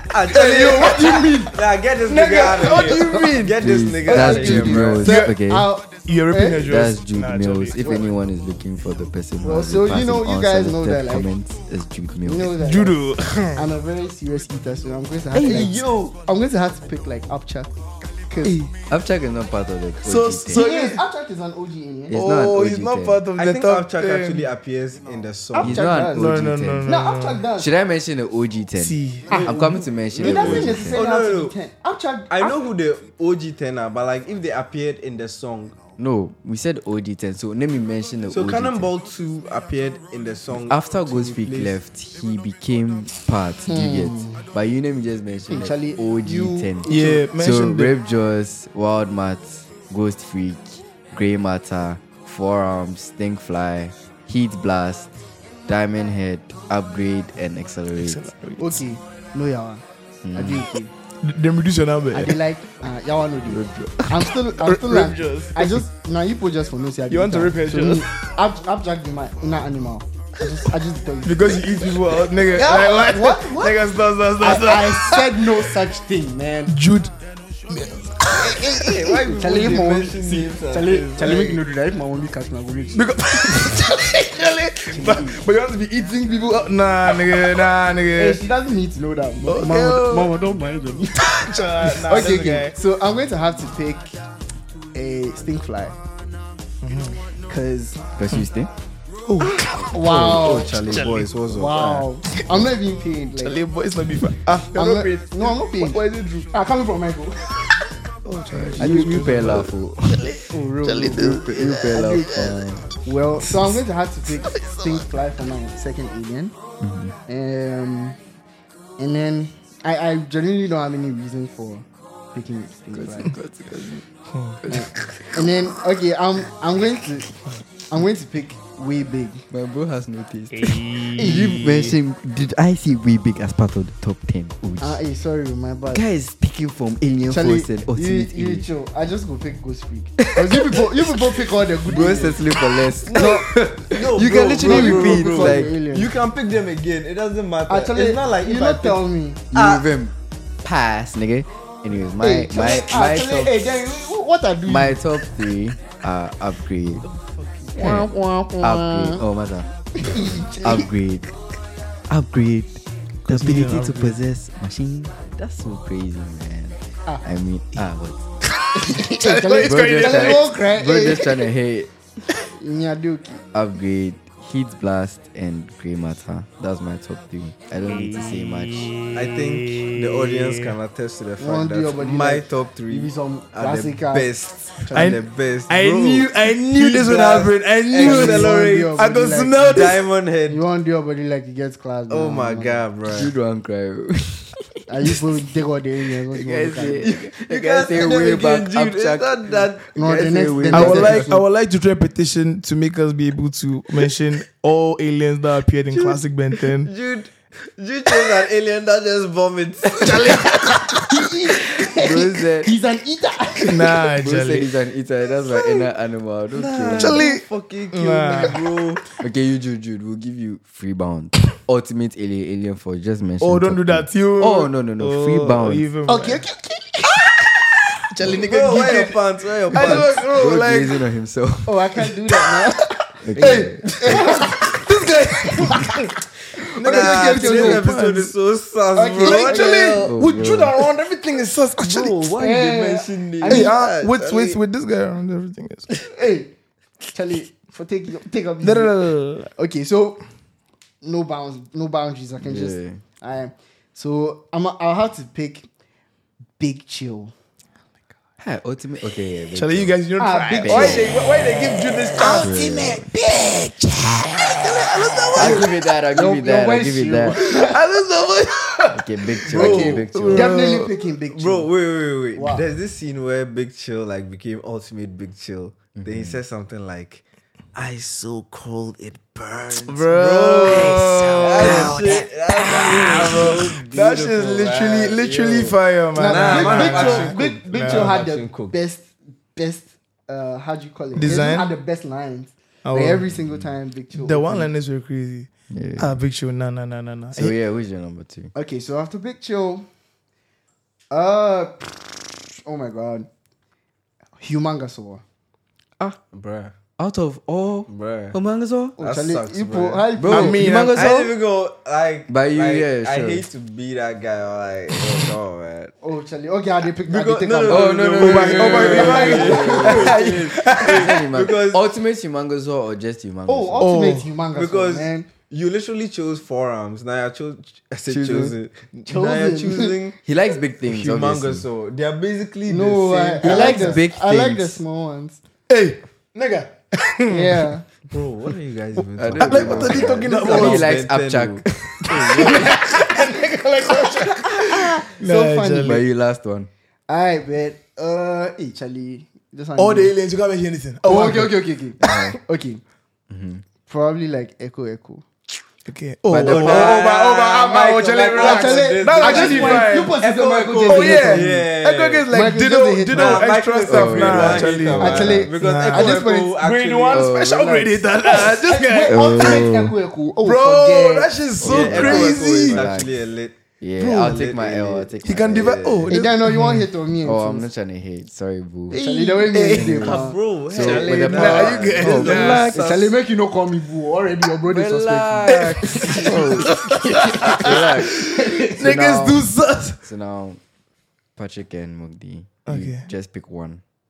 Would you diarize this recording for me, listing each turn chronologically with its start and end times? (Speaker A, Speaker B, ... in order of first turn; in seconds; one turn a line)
Speaker A: 0.1-5.1
Speaker B: 0.3-1.4
Speaker C: 0.5-1.6
Speaker B: 2.1-5.3
Speaker C: 2.9-3.3
Speaker D: 3.5-5.7
Speaker C: 4.1-6.7
Speaker B: 6.0-8.0
Speaker D: 6.6-12.6
Speaker C: 9.4-11.3
Speaker C: 12.2-13.0
Speaker B: 12.6-13.6
Speaker C: 13.6-17.7
Speaker A: 15.3-16.2
Speaker B: 15.4-15.8
Speaker C: 18.3-18.7
Speaker B: 18.4-18.7
Speaker D: 18.9-20.7
Speaker B: 20.0-21.0
Speaker C: 20.5-22.1
Speaker D: 22.1-23.2
Speaker B: 22.1-24.5
Speaker A: 23.4-25.9
Speaker C: 25.5-27.7
Speaker D: 25.6-26.9
Speaker B: 26.1-27.4
Speaker D: 27.5-31.0
Speaker B: 28.8-29.4
Speaker C: 29.3-32.5
Speaker A: 29.3-31.6
Speaker A: 32.3-35.8
Speaker D: 36.0-38.9
Speaker A: 38.3-41.8
Speaker D: 40.7-55.1
Speaker C: 43.7-44.5
Speaker C: 45.5-47.2
Speaker B: 46.9-47.9
Speaker D: 55.7-58.3
Speaker B: 58.0-58.8
Speaker C: 58.6-59.8
Speaker D: 60.2-60.7
Speaker C: 60.3-60.9
Speaker B: 61.2-62.4
Speaker C: 62.1-71.7
Speaker D: 63.5-63.9
Speaker B: 64.0-65.8
Speaker B: 67.1-68.1
Speaker B: 71.2-75.6
Speaker C: 72.5-73.8
Speaker C: 74.4-76.7
Speaker B: 76.7-77.1
Speaker B: 77.7-79.0
Speaker C: 78.4-83.7
Speaker A: 78.7-81.6
Speaker B: 82.9-88.4
Speaker C: 84.9-85.4
Speaker C: 88.2-91.3
Speaker B: 89.5-90.3
Speaker B: 91.2-92.8
Speaker C: 91.8-94.1
Speaker C: 94.9-96.0
Speaker B: 96.8-97.2
Speaker C: 97.5-98.0
Speaker D: 98.2-98.7
Speaker B: 99.2-101.3
Speaker C: 99.8-100.8
Speaker A: 100.0-102.1
Speaker C: 101.5-103.6
Speaker B: 103.4-106.5
Speaker C: 104.7-106.0
Speaker C: 106.5-107.5
Speaker B: 108.2-112.5
Speaker D: 108.5-110.3
Speaker C: 108.8-109.4
Speaker C: 110.5-116.5
Speaker D: 111.1-112.9
Speaker B: 113.4-113.8
Speaker B: 114.4-115.0
Speaker D: 116.8-117.1
Speaker C: 117.3-118.2
Speaker C: 119.0-123.3
Speaker D: 122.9-124.0
Speaker B: 124.3-125.3
Speaker D: 124.6-125.0
Speaker C: 124.7-129.4
Speaker D: 129.5-135.0
Speaker B: 130.5-131.9
Speaker C: 131.2-131.5
Speaker C: 134.8-136.0
Speaker D: 135.9-138.7
Speaker C: 137.2-142.4
Speaker D: 140.2-145.7
Speaker A: 143.1-149.9
Speaker C: 143.1-143.5
Speaker C: 144.6-146.1
Speaker C: 147.7-149.4
Speaker D: 149.5-153.8
Speaker C: 152.2-155.0
Speaker D: 154.6-157.1
Speaker C: 157.7-159.2
Speaker D: 157.8-159.7
Speaker C: 160.0-160.9
Speaker D: 160.6-161.3
Speaker D: 162.1-168.2
Speaker B: 163.3-164.2
Speaker B: 168.5-170.6
Speaker C: 168.8-171.5
Speaker D: 169.6-171.9
Speaker C: 172.4-173.4
Speaker D: 173.5-178.9
Speaker B: 177.9-180.7
Speaker A: 179.1-188.9
Speaker C: 181.4-185.2
Speaker B: 184.9-190.0
Speaker C: 187.9-192.8
Speaker A: 189.6-190.6
Speaker A: 192.1-193.3
Speaker D: 193.1-194.6
Speaker C: 194.9-197.2
Speaker D: 196.3-201.3
Speaker A: 197.4-201.2
Speaker C: 199.9-201.4
Speaker B: 200.7-206.9
Speaker A: 205.9-210.3
Speaker B: 210.0-211.2
Speaker C: 211.1-214.1
Speaker D: 212.0-212.7
Speaker B: 213.7-214.7
Speaker D: 214.2-217.2
Speaker A: 216.5-219.0
Speaker B: 217.0-218.6
Speaker D: 219.2-225.8
Speaker B: 223.4-226.4
Speaker C: 226.1-227.5
Speaker B: 228.1-229.2
Speaker A: 228.2-230.2
Speaker B: 229.7-231.0
Speaker D: 229.8-232.0
Speaker C: 231.7-235.9
Speaker D: 233.2-234.6
Speaker B: 233.4-236.2
Speaker B: 236.8-238.3
Speaker C: 236.8-237.8
Speaker A: 236.8-240.1
Speaker C: 238.9-240.1
Speaker B: 239.2-242.2
Speaker D: 240.0-240.8
Speaker A: 241.8-244.6
Speaker C: 242.4-243.7
Speaker B: 243.5-245.9
Speaker C: 246.0-246.5
Speaker C: 247.1-250.2
Speaker B: 248.6-249.5
Speaker C: 251.0-255.7
Speaker D: 252.4-253.0
Speaker C: 256.6-257.3
Speaker D: 258.4-259.9
Speaker B: 259.5-265.7
Speaker C: 260.2-261.4
Speaker D: 260.6-261.2
Speaker C: 262.1-262.8
Speaker D: 262.2-263.1
Speaker C: 265.3-267.8
Speaker D: 265.3-267.4
Speaker B: 267.3-270.9
Speaker D: 268.9-270.6
Speaker C: 269.5-271.7
Speaker A: 269.5-270.0
Speaker A: 271.3-277.2
Speaker C: 272.3-272.6
Speaker D: 275.9-276.4
Speaker A: 277.7-288.7
Speaker B: 279.9-288.1
Speaker C: 281.6-282.0
Speaker C: 282.8-283.4
Speaker C: 286.1-294.7
Speaker B: 291.1-291.7
Speaker B: 292.8-293.2
Speaker B: 294.1-297.5
Speaker D: 295.7-296.2
Speaker D: 297.3-298.5
Speaker C: 298.5-299.9
Speaker C: 301.1-303.3
Speaker C: 304.4-305.2
Speaker A: 306.3-306.7
Speaker D: 307.0-308.9
Speaker A: 307.9-308.4
Speaker C: 309.0-310.7
Speaker A: 309.0-310.1
Speaker D: 310.2-311.3
Speaker B: 310.3-311.2
Speaker A: 310.9-315.9
Speaker D: 312.3-313.4
Speaker C: 316.0-320.1
Speaker A: 317.1-321.9
Speaker D: 317.6-323.9
Speaker B: 318.2-321.2
Speaker C: 323.5-325.3
Speaker B: 323.8-324.3
Speaker A: 324.5-330.2
Speaker D: 328.1-328.5
Speaker C: 329.1-329.9
Speaker D: 330.2-331.6
Speaker A: 330.9-334.0
Speaker C: 332.7-335.4
Speaker D: 333.4-334.8
Speaker B: 335.7-337.7
Speaker C: 337.3-337.8
Speaker A: 338.1-342.9
Speaker D: 339.2-342.1
Speaker B: 339.4-340.9
Speaker B: 342.2-346.0
Speaker C: 344.0-346.0
Speaker D: 345.8-346.7
Speaker C: 347.1-350.1
Speaker B: 349.8-352.1
Speaker C: 351.0-352.8
Speaker D: 352.0-352.4
Speaker D: 353.3-353.6
Speaker C: 353.9-355.2
Speaker B: 355.9-360.2
Speaker D: 356.3-357.0
Speaker A: 356.4-362.2
Speaker C: 358.3-361.6
Speaker B: 360.9-369.7
Speaker C: 362.3-363.5
Speaker A: 363.1-367.4
Speaker D: 363.9-365.4
Speaker C: 364.6-366.6
Speaker D: 367.1-367.8
Speaker C: 367.8-371.3
Speaker D: 369.1-369.9
Speaker B: 370.4-372.9
Speaker D: 371.6-373.1
Speaker A: 371.6-376.1
Speaker D: 373.8-376.0
Speaker B: 375.2-376.9
Speaker C: 376.1-377.7
Speaker D: 377.2-379.0
Speaker C: 378.9-380.4
Speaker A: 378.9-383.1
Speaker B: 379.5-380.2
Speaker D: 379.7-382.8
Speaker B: 380.8-382.9
Speaker C: 382.2-388.9
Speaker D: 384.6-386.8
Speaker B: 385.5-390.0
Speaker D: 387.5-388.2
Speaker D: 388.8-389.4
Speaker D: 390.0-390.6
Speaker D: 391.4-393.8
Speaker B: 392.7-393.1